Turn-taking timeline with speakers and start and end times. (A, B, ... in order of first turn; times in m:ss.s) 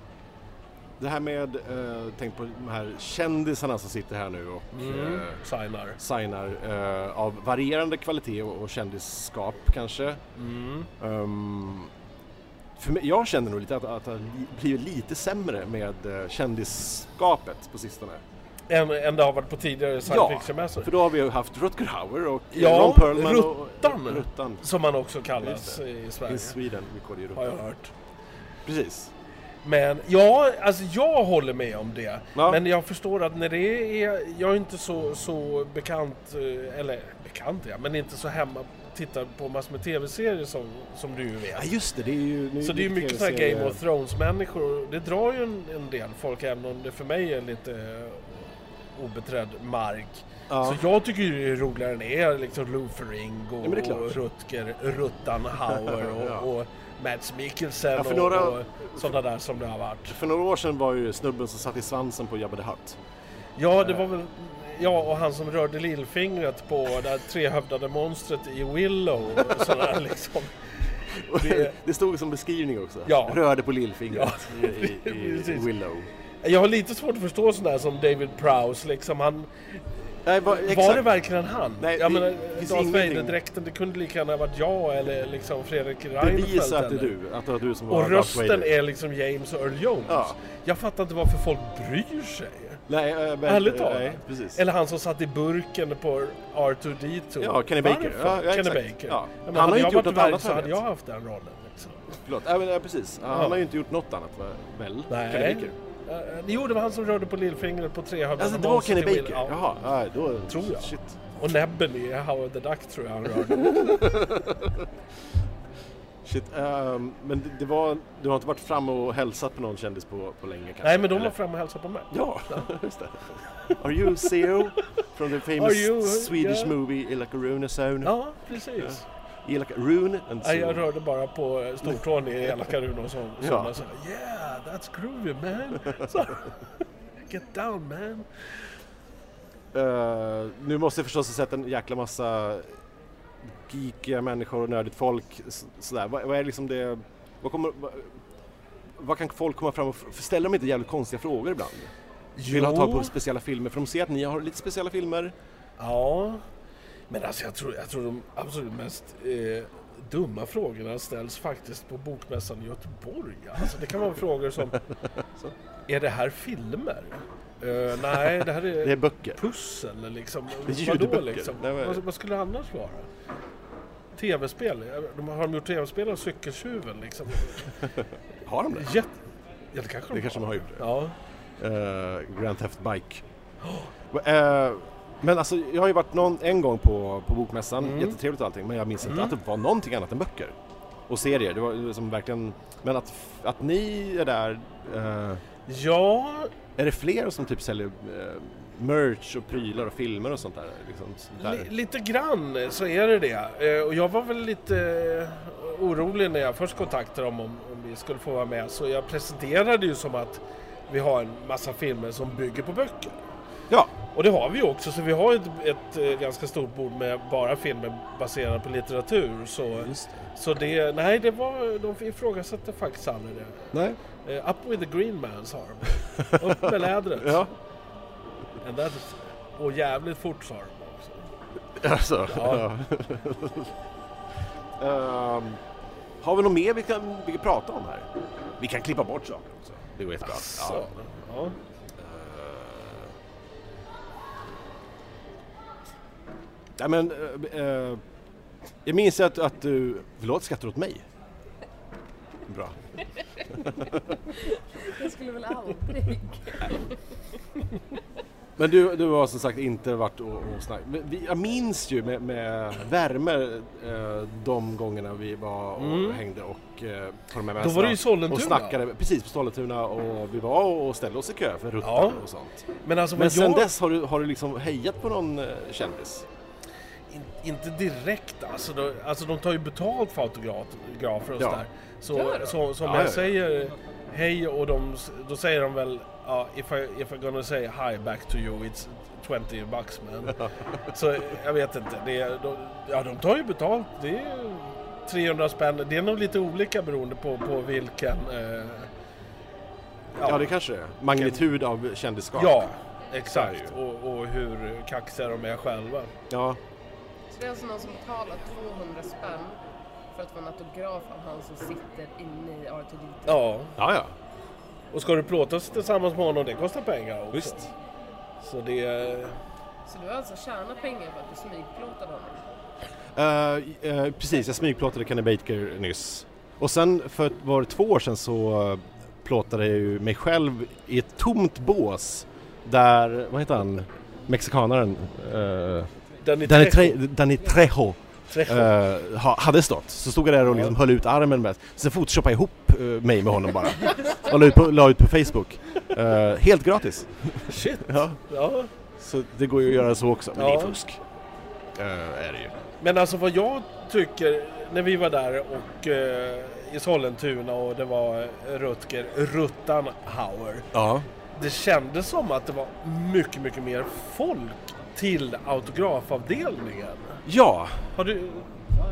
0:01.0-0:05.4 A
0:04.7-0:06.0 B
0:06.0-0:10.2 A
0:10.4-0:10.9 B
0:11.0-0:11.9 A
0:12.8-0:18.2 A
0:18.7-0:20.9 B
0:20.0-0:24.6 A
0:22.5-0:26.6 B
0:25.4-0:27.5 A
0:27.3-0:27.9 B
0:28.6-0:29.1 A
0:29.6-0:41.7 B
0:32.4-0:32.6 A
0:41.5-0:43.8 A
0:42.6-1:00.2 B
0:50.5-0:50.8 A
0:53.6-0:54.2 A
0:55.7-0:56.5 A
0:57.9-0:59.1 A
1:00.1-1:03.0 A
1:03.6-1:11.8 B
1:11.1-1:16.1 A
1:13.0-1:13.4 B
1:14.1-1:15.7 B
1:16.4-1:27.1 B
1:20.2-1:21.1 A
1:21.8-1:23.4 A
1:26.2-1:28.7 A
1:27.9-1:32.8 B
1:30.0-1:30.4 A
1:32.9-1:34.6 A
1:33.4-1:42.2 B
1:37.4-1:40.8 A
1:42.2-1:45.7 A
1:43.3-1:43.6 B
1:45.1-1:49.6 B
1:48.4-1:51.1 A
1:50.5-1:54.2 B
1:53.6-1:54.8 A
1:56.2-2:01.3 A
2:00.8-2:02.7 B
2:02.1-2:10.8 A
2:03.6-2:04.8 B
2:05.5-2:06.8 B
2:08.0-2:09.0 B
2:10.4-2:18.2 B
2:12.5-2:12.7 A
2:13.4-2:13.7 A
2:19.7-2:22.8 A
2:23.4-2:28.2 A
2:29.0-2:31.9 A
2:32.4-2:33.1 B
2:32.4-2:35.3 A
2:35.8-2:36.4 B
2:37.1-2:44.8 B
2:45.9-2:53.1 B
2:48.7-2:49.4 A
2:50.6-2:52.0 A
2:54.1-2:57.9 B
2:58.4-2:58.9 A
2:58.7-2:59.1 B
2:59.7-3:01.2 B
3:00.1-3:00.9 A
3:01.6-3:03.2 A
3:03.6-3:03.9 B
3:04.1-3:10.5 A
3:07.8-3:08.2 B
3:09.0-3:09.3 B
3:11.1-3:15.4 A
3:15.7-3:16.5 B
3:16.8-3:21.7 A
3:21.4-3:33.2 B
3:34.1-3:47.4 B
3:39.7-3:40.3 A
3:43.7-3:44.0 A
3:46.6-3:47.5 A
3:48.6-3:51.2 B
3:51.8-3:53.7 A
3:52.3-3:52.7 B
3:54.8-3:55.6 A
3:56.2-4:00.9 A
4:00.2-4:01.6 B
4:02.0-4:03.1 A
4:06.8-4:08.0 A
4:08.8-4:11.0 A
4:12.4-4:12.8 A
4:13.5-4:14.1 A
4:14.4-4:16.9 C
4:18.6-4:32.6 A
4:25.8-4:26.2 B
4:27.6-4:28.8 B
4:31.8-4:32.2 B
4:32.8-4:33.7 B
4:33.2-4:36.2 A
4:37.1-4:58.9 B
4:41.4-4:41.6 A
4:42.1-4:42.6 C
4:42.8-4:43.4 A
5:00.1-5:00.5 B
5:00.2-5:02.7 A
5:01.1-5:01.5 B
5:02.3-5:06.1 B
5:03.2-5:03.7 A
5:06.3-5:06.6 A
5:07.3-5:09.6 C
5:10.1-5:13.4 C
5:13.3-5:13.7 B
5:13.8-5:14.1 A
5:14.9-5:17.6 B
5:17.3-5:17.7 A
5:18.4-5:19.4 B
5:19.8-5:22.4 C
5:23.1-5:35.9 A
5:36.2-5:37.0 B
5:36.4-5:48.2 A
5:38.3-5:38.7 B
5:47.4-5:48.7 B
5:48.9-5:51.0 A
5:50.3-5:50.8 B
5:51.7-5:52.6 A
5:52.8-6:00.7 B
6:00.7-6:01.1 A
6:01.3-6:07.2 B
6:07.2-6:07.9 A
6:07.9-6:08.5 B